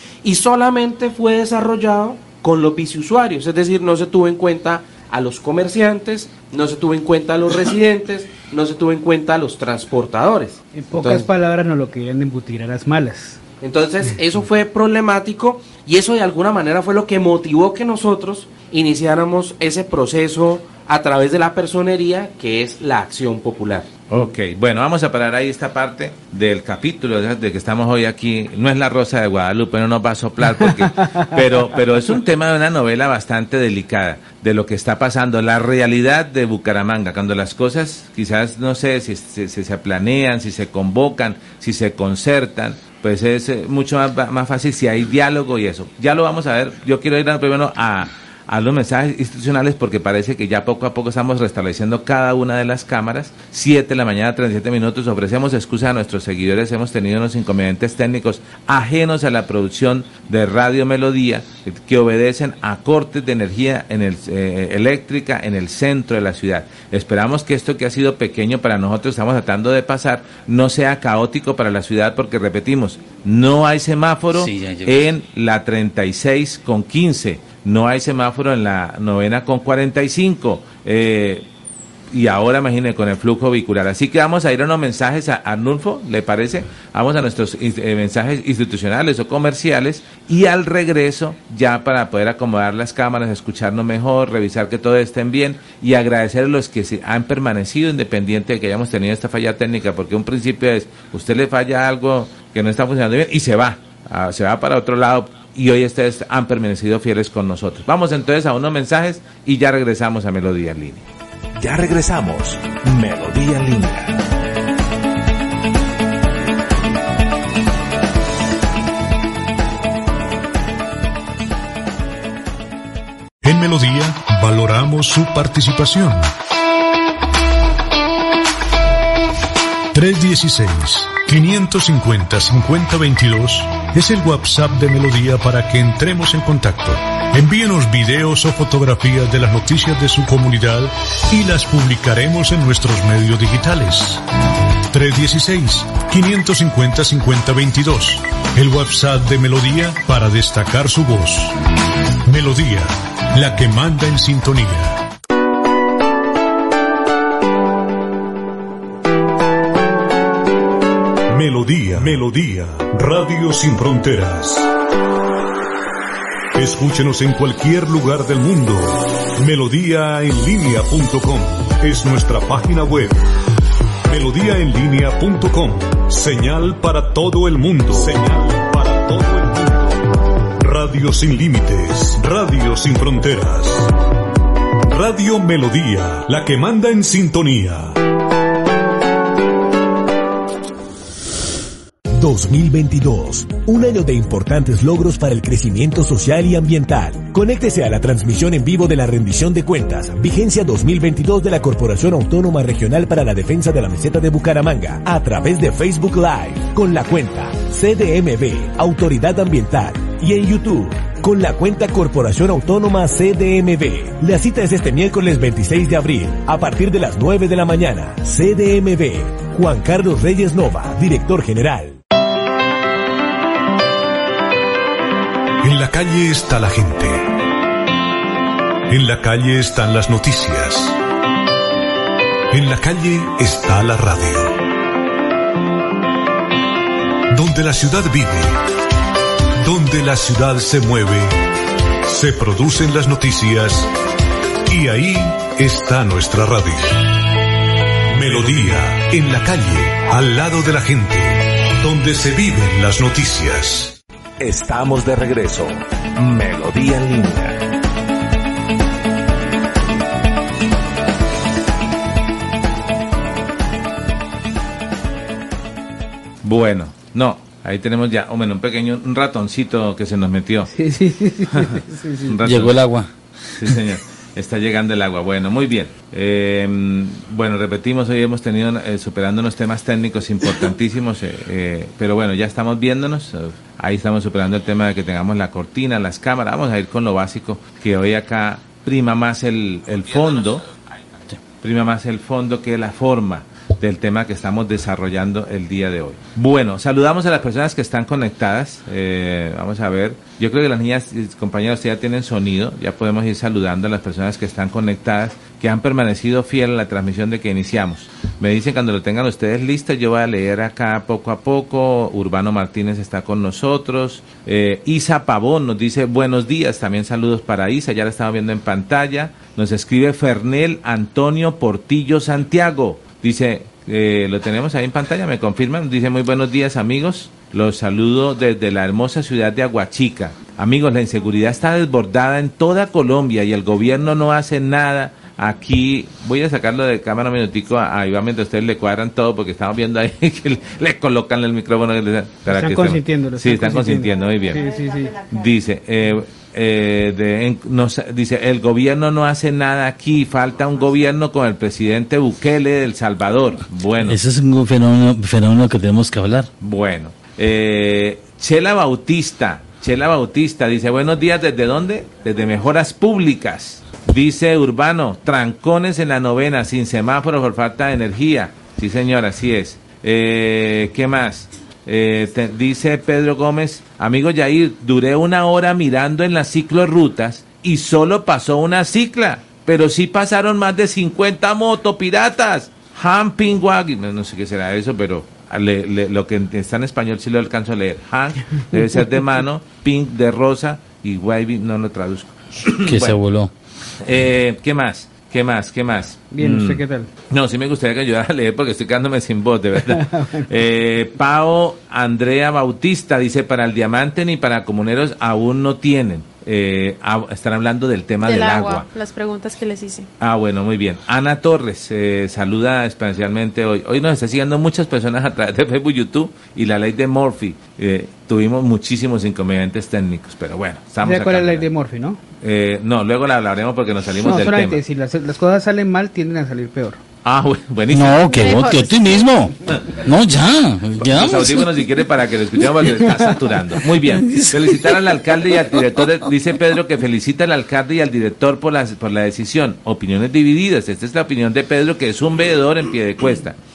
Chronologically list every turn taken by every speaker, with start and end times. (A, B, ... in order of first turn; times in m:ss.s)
0:00.2-0:11.3 A
0:10.7-0:13.4 B
0:13.6-0:23.9 A
0:24.1-1:21.4 C
1:14.3-1:15.0 D
1:22.1-1:51.0 C
1:51.6-1:54.2 C
2:03.4-2:06.3 E
2:09.9-2:24.2 E
2:24.9-2:31.5 E
2:32.2-2:35.0 E
2:41.3-2:44.7 E
2:46.5-2:53.2 E
2:54.1-3:00.0 E
3:00.6-3:03.9 E
3:04.9-3:07.9 E
3:12.1-3:42.0 F
3:45.6-3:47.3 E
3:48.9-3:51.0 E
3:52.5-3:54.6 E
3:57.3-3:58.6 E
3:59.6-4:01.4 E
4:02.1-4:03.9 E
4:04.7-4:07.2 E
4:08.1-4:14.0 E
4:14.4-4:17.6 C
4:26.4-4:30.7 C
4:30.7-4:32.3 B
4:32.3-4:32.8 C
4:32.4-4:33.1 D
4:33.5-4:50.7 C
4:51.6-5:44.6 C
5:42.5-5:45.2 B
5:45.3-5:54.2 C
5:54.0-5:56.5 D
5:56.6-6:33.2 C
6:32.8-6:33.5 D
6:34.0-6:48.8 C
6:36.3-6:37.1 B
6:39.8-6:40.4 B
6:48.2-6:50.1 G
6:50.2-7:01.7 C
7:01.0-7:02.2 B
7:02.4-7:04.8 C
7:04.2-7:07.0 B
7:07.2-7:08.4 C
7:07.9-7:11.7 D
7:08.4-7:08.9 B
7:08.5-7:08.8 G
7:11.0-7:23.6 C
7:14.0-7:15.0 D